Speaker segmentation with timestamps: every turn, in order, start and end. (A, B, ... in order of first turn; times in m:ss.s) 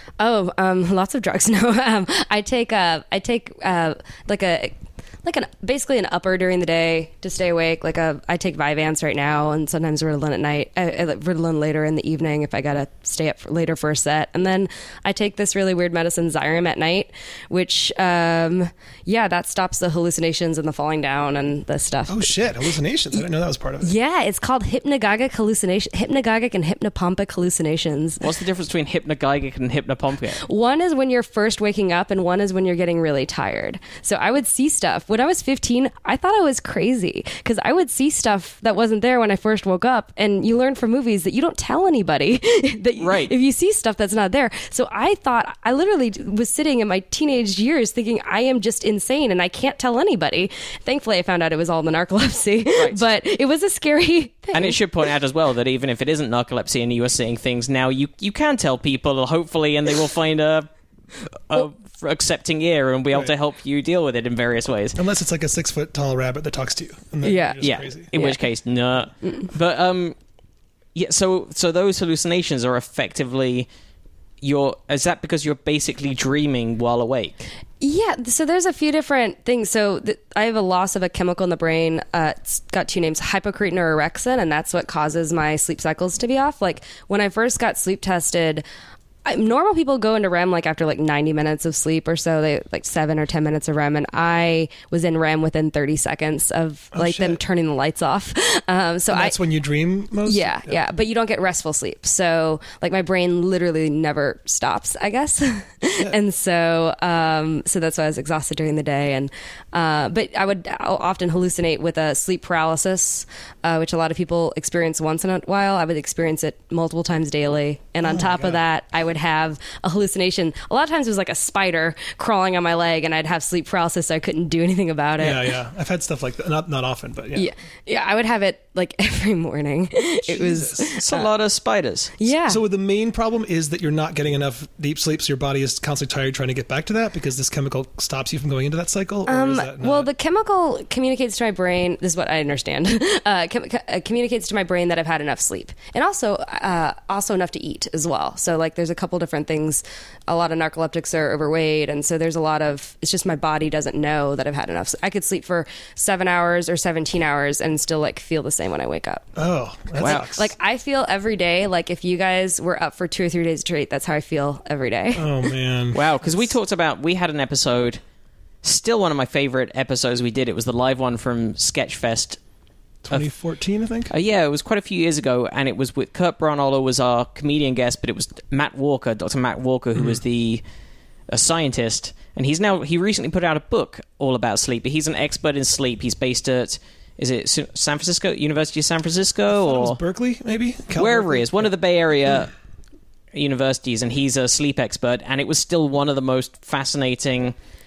0:00.2-0:22.3 A
0:22.1-0:23.9 B
0:23.8-0:28.2 A
0:28.2-0:30.4 C
0:30.4-0:54.8 A
0:43.0-0:43.3 C
0:52.8-0:53.0 C
0:54.5-1:00.7 C
1:01.5-1:05.0 C
1:05.0-1:08.1 B
1:07.2-1:08.4 A
1:07.6-1:10.2 C
1:11.0-1:13.7 C
1:14.4-1:17.5 C
1:17.8-1:28.6 A
1:29.2-1:39.4 A
1:36.9-1:37.4 B
1:39.1-1:40.8 B
1:40.2-2:05.5 A
1:58.0-1:58.6 B
2:05.2-2:07.5 B
2:07.4-2:11.3 A
2:10.3-2:11.0 B
2:11.0-2:12.1 C
2:12.2-2:12.6 A
2:12.5-2:20.1 B
2:19.3-2:39.2 A
2:39.4-2:40.5 B
2:40.0-2:45.4 A
2:40.0-2:40.3 C
2:45.2-2:46.5 B
2:45.9-2:48.0 C
2:48.6-2:52.4 C
2:53.0-2:54.1 B
2:54.1-3:00.6 C
3:01.3-3:10.0 C
3:09.5-3:11.7 B
3:11.0-3:12.5 C
3:13.3-3:17.5 C